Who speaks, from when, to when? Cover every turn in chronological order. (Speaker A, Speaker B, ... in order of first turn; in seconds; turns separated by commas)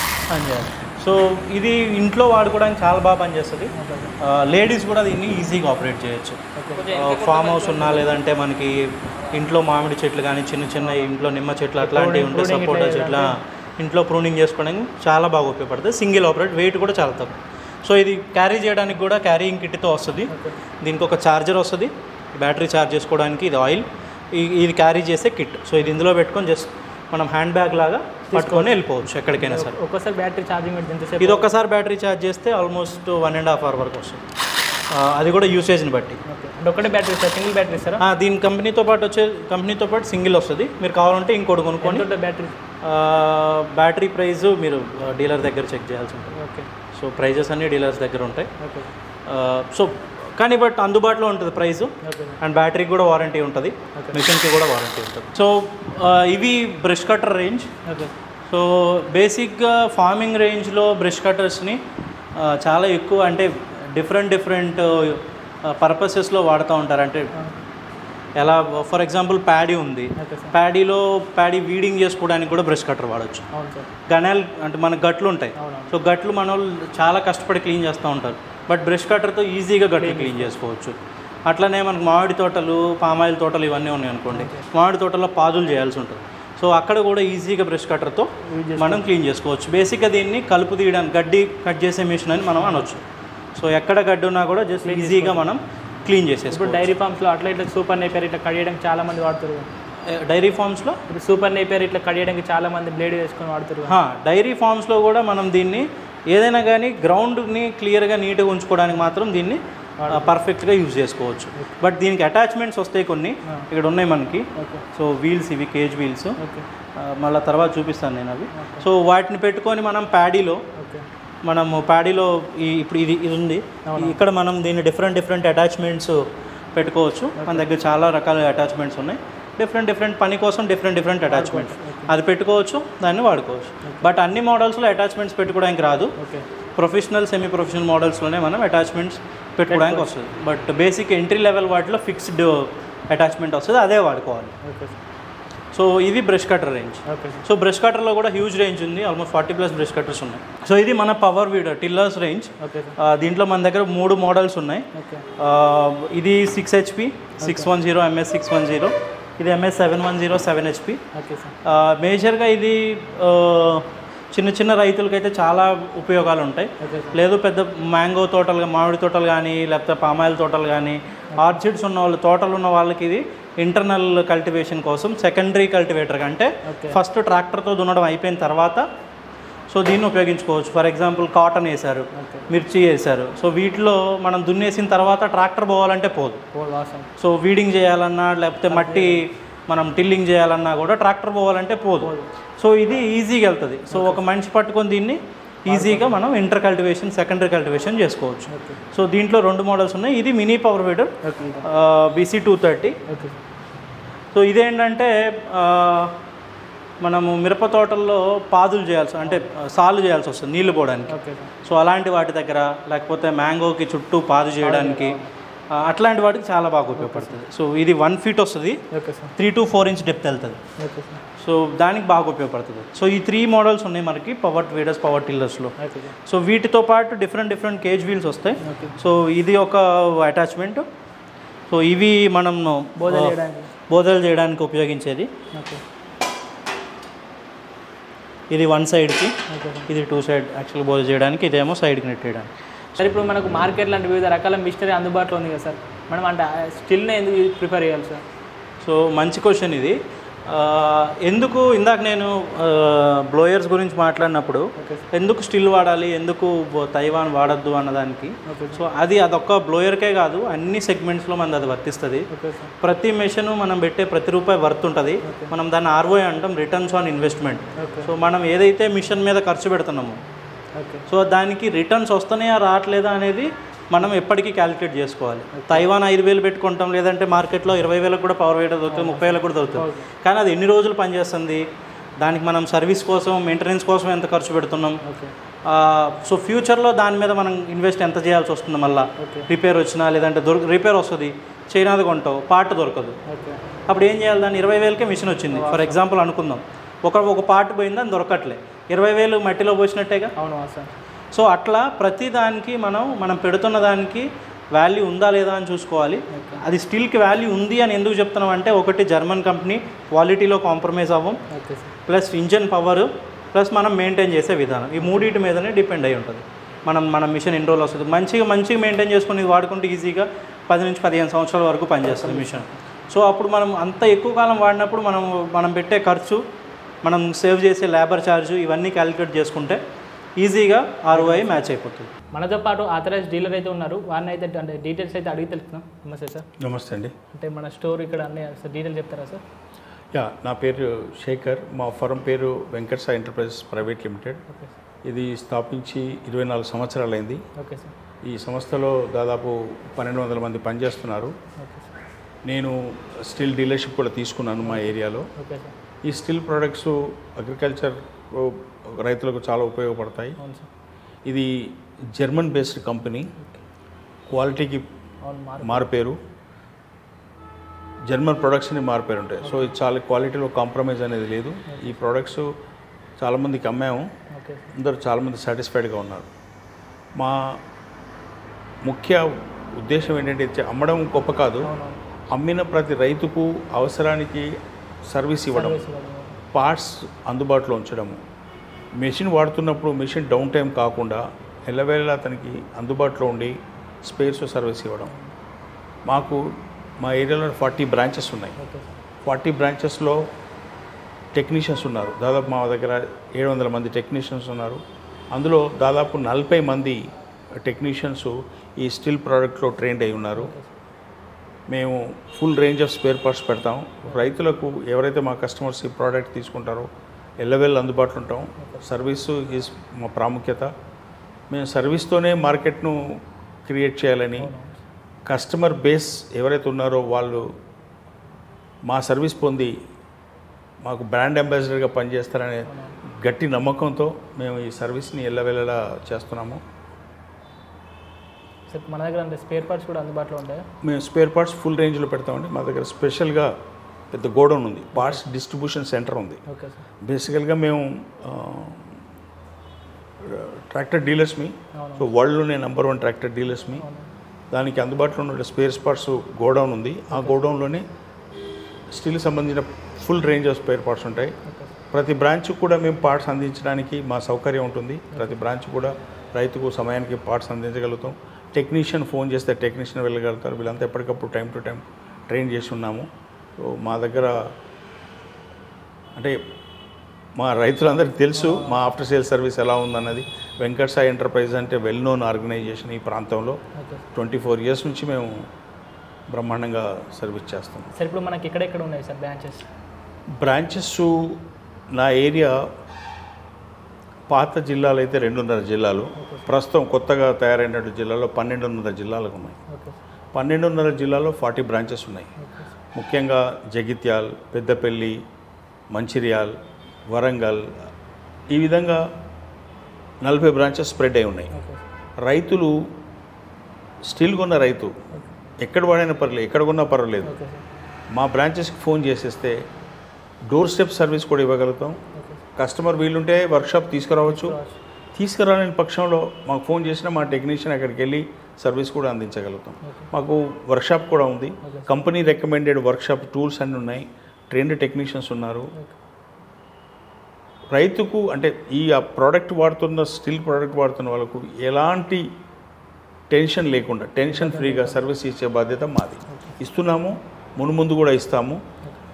Speaker A: 0.3-29.8, Speaker B: 3.7-4.1, Speaker B: 6.5-8.1, Speaker B: 10.8-11.1, Speaker B: 11.8-13.3, Speaker B: 20.3-20.6, Speaker B: 28.3-28.8, Speaker B: 29.4-31.5, Speaker A: 31.2-34.2, Speaker A: 34.9-36.2, Speaker B: 36.2-38.0, Speaker A: 38.0-42.1, Speaker B: 41.8-42.5, Speaker A: 42.8-46.4, Speaker B: 46.3-46.7, Speaker A: 46.9-48.5, Speaker B: 48.6-48.9, Speaker A: 49.2-57.7, Speaker B: 52.0-52.4, Speaker B: 57.8-58.1, Speaker A: 58.5-61.8, Speaker A: 62.4-67.3, Speaker A: 68.4-73.5, Speaker B: 70.2-70.5, Speaker B: 73.5-73.9, Speaker A: 74.1-81.0, Speaker B: 75.5-75.9, Speaker B: 80.0-80.5, Speaker A: 81.5-93.0, Speaker B: 84.3-84.7, Speaker B: 88.4-89.0, Speaker B: 92.6-92.9, Speaker A: 93.5-96.9, Speaker B: 94.8-95.4, Speaker B: 96.5-99.7, Speaker A: 100.0-101.0, Speaker B: 101.1-104.0, Speaker A: 103.8-116.4, Speaker B: 110.0-110.3, Speaker B: 114.5-114.8, Speaker B: 116.4-116.6, Speaker A: 117.0-120.6, Speaker B: 118.5-118.9, Speaker B: 120.7-121.0, Speaker A: 121.4-136.1, Speaker B: 123.9-124.2, Speaker B: 127.4-127.7, Speaker B: 131.3-132.1, Speaker B: 133.8-134.1, Speaker B: 136.2-136.4, Speaker A: 136.8-144.6, Speaker B: 139.7-140.1, Speaker B: 144.6-145.0, Speaker A: 145.7-154.8, Speaker B: 147.1-147.4, Speaker B: 152.6-153.0, Speaker B: 154.9-155.2, Speaker A: 155.4-161.0, Speaker B: 157.4-157.7, Speaker B: 161.1-161.5, Speaker A: 161.6-178.8, Speaker B: 166.8-167.2, Speaker B: 171.3-171.6, Speaker B: 176.6-177.0, Speaker A: 179.7-186.4, Speaker B: 182.1-182.5, Speaker B: 186.5-187.1, Speaker A: 187.2-203.0, Speaker B: 188.7-189.3, Speaker B: 192.0-192.3, Speaker B: 193.9-194.2, Speaker B: 195.7-196.2, Speaker B: 198.5-198.8, Speaker B: 201.2-201.6, Speaker B: 203.1-203.4, Speaker A: 204.3-206.2, Speaker A: 207.0-215.2, Speaker B: 211.1-211.5, Speaker B: 214.6-215.3, Speaker A: 215.7-218.8, Speaker B: 217.0-217.4, Speaker B: 218.9-219.3, Speaker A: 219.3-220.6, Speaker B: 220.8-221.2, Speaker A: 221.4-230.8, Speaker B: 225.8-226.1, Speaker B: 228.6-229.0, Speaker A: 231.7-233.3, Speaker B: 233.0-233.7, Speaker A: 233.9-235.3, Speaker B: 235.5-235.8, Speaker A: 238.5-242.5, Speaker B: 239.5-239.9, Speaker B: 242.9-248.2, Speaker A: 248.8-262.3, Speaker B: 254.8-255.1, Speaker B: 258.4-258.8, Speaker B: 262.3-262.7, Speaker A: 262.8-270.2, Speaker B: 265.2-265.5, Speaker B: 267.8-268.1, Speaker B: 270.8-271.1, Speaker A: 271.1-281.6, Speaker B: 275.5-275.8, Speaker B: 278.9-280.1, Speaker A: 282.2-285.0, Speaker B: 285.0-285.3, Speaker A: 285.6-293.2, Speaker B: 289.2-289.5, Speaker B: 293.2-293.6, Speaker A: 293.9-300.3, Speaker B: 295.5-296.0, Speaker B: 300.4-300.9, Speaker A: 301.3-311.4, Speaker B: 306.3-306.6, Speaker B: 311.5-311.9, Speaker A: 312.1-326.4, Speaker B: 315.0-315.3, Speaker B: 322.0-322.7, Speaker A: 327.0-329.8, Speaker A: 330.4-332.1, Speaker B: 331.1-331.6, Speaker B: 332.3-336.5, Speaker C: 336.6-337.1, Speaker B: 337.3-339.4, Speaker C: 340.1-344.4, Speaker B: 344.5-344.7, Speaker C: 345.0-347.4, Speaker B: 347.6-347.9, Speaker C: 348.2-351.4, Speaker B: 351.6-351.9, Speaker C: 352.4-355.3, Speaker B: 354.6-355.7, Speaker C: 356.0-360.4, Speaker B: 360.4-360.7, Speaker C: 361.2-363.3, Speaker C: 364.3-364.8, Speaker B: 365.2-365.9, Speaker C: 365.6-366.2, Speaker C: 368.1-372.5, Speaker B: 369.4-369.7, Speaker B: 371.7-372.0, Speaker C: 373.2-374.1, Speaker B: 374.3-374.6, Speaker C: 374.7-376.3, Speaker C: 377.1-377.6, Speaker C: 378.8-381.7, Speaker B: 381.6-382.0, Speaker C: 382.3-384.5, Speaker C: 385.1-385.8, Speaker B: 385.5-386.4, Speaker C: 386.5-388.2, Speaker C: 389.0-395.1, Speaker C: 396.1-398.6, Speaker B: 398.6-399.0, Speaker C: 399.2-400.2, Speaker C: 401.3-404.8, Speaker C: 405.3-407.0, Speaker C: 407.6-410.5, Speaker B: 410.3-410.7, Speaker C: 411.7-416.9, Speaker B: 414.1-414.3, Speaker C: 417.4-420.7, Speaker B: 418.6-418.9, Speaker C: 421.5-424.5, Speaker B: 424.4-424.8, Speaker C: 425.2-427.5, Speaker C: 428.8-429.8, Speaker C: 430.8-432.7, Speaker B: 432.6-432.9, Speaker C: 433.2-436.6, Speaker B: 438.7-440.6, Speaker C: 440.8-443.5, Speaker C: 444.1-446.4, Speaker B: 444.9-445.2, Speaker B: 446.5-446.8, Speaker C: 447.0-448.9, Speaker C: 450.2-453.8, Speaker B: 451.7-452.1, Speaker B: 453.6-454.1, Speaker C: 454.5-457.8, Speaker B: 457.1-457.4, Speaker C: 458.9-461.3, Speaker C: 461.9-474.5, Speaker B: 465.1-465.4, Speaker C: 477.4-483.6, Speaker B: 478.2-478.8, Speaker B: 483.8-484.0, Speaker C: 484.1-485.5, Speaker C: 486.3-487.9, Speaker B: 487.9-489.6, Speaker C: 490.4-491.4, Speaker C: 491.9-492.7, Speaker C: 494.3-499.6, Speaker B: 496.1-496.5, Speaker B: 499.7-499.9, Speaker C: 500.3-502.3, Speaker B: 502.4-502.7, Speaker C: 502.9-505.2, Speaker C: 505.9-506.6, Speaker C: 507.1-507.9, Speaker C: 508.5-509.1, Speaker C: 510.2-511.5, Speaker B: 511.5-511.8, Speaker C: 512.2-512.9, Speaker C: 514.0-515.0, Speaker C: 515.6-517.3, Speaker B: 517.2-517.6, Speaker C: 518.1-519.6, Speaker C: 520.5-522.0, Speaker B: 522.1-522.4, Speaker C: 522.5-524.5, Speaker B: 524.2-524.7, Speaker C: 525.1-535.7, Speaker B: 529.8-530.1, Speaker B: 531.6-531.9, Speaker C: 537.7-542.3, Speaker C: 543.3-548.6, Speaker B: 544.3-545.0, Speaker B: 546.3-546.5